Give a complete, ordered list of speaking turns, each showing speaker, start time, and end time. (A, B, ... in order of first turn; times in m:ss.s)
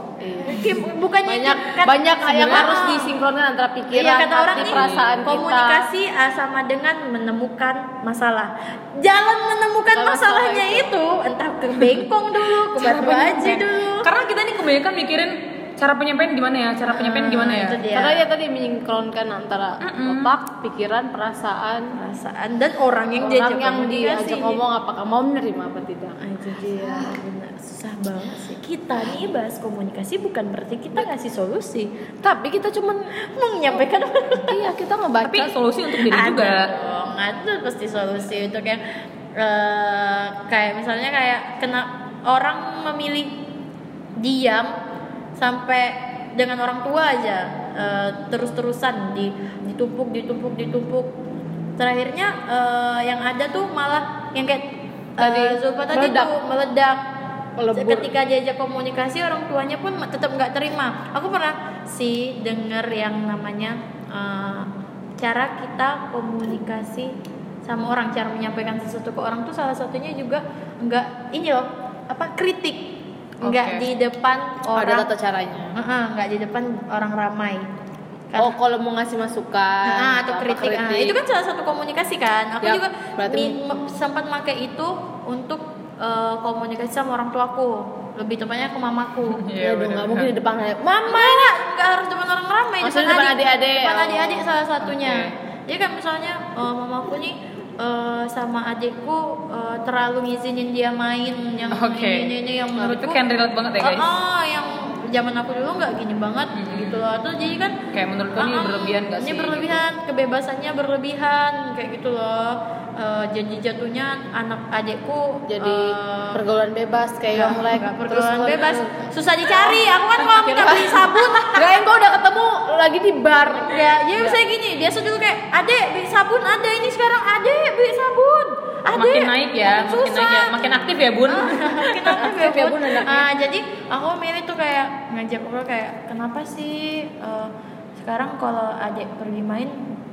0:00.2-0:05.9 A
0:00.4-0:03.1 B
0:03.9-0:14.1 B
0:04.5-0:05.2 C
0:09.9-0:10.9 A
0:12.6-0:17.8 C
0:16.9-0:18.2 B
0:17.9-0:21.9 A
0:19.8-0:20.3 C
0:21.9-0:24.6 B
0:23.2-0:27.2 A
0:26.2-0:32.0 B
0:32.2-0:33.1 A
0:33.1-0:34.6 B
0:34.4-0:35.6 A
0:35.2-0:36.7 C
0:36.0-0:43.4 B
0:44.2-0:44.7 B
0:45.4-0:51.1 B
0:51.8-0:57.0 B
0:55.2-0:56.3 A
0:57.6-0:58.1 A
0:57.7-1:15.1 B
1:13.4-1:13.8 C
1:14.7-1:15.7 A
1:15.7-1:17.7 B
1:18.4-1:21.2 A
1:19.8-1:29.4 B
1:22.6-1:23.8 A
1:29.3-1:30.3 C
1:29.6-1:31.6 A
1:31.0-1:43.2 B
1:32.8-1:34.5 A
1:34.8-1:35.3 C
1:41.7-1:44.1 C
1:43.8-1:47.8 B
1:46.5-1:47.1 C
1:47.9-1:49.8 C
1:48.4-1:56.4 B
1:55.5-2:04.4 A
1:57.3-2:01.8 B
2:03.4-2:19.8 B
2:08.9-2:12.2 C
2:12.1-2:13.3 A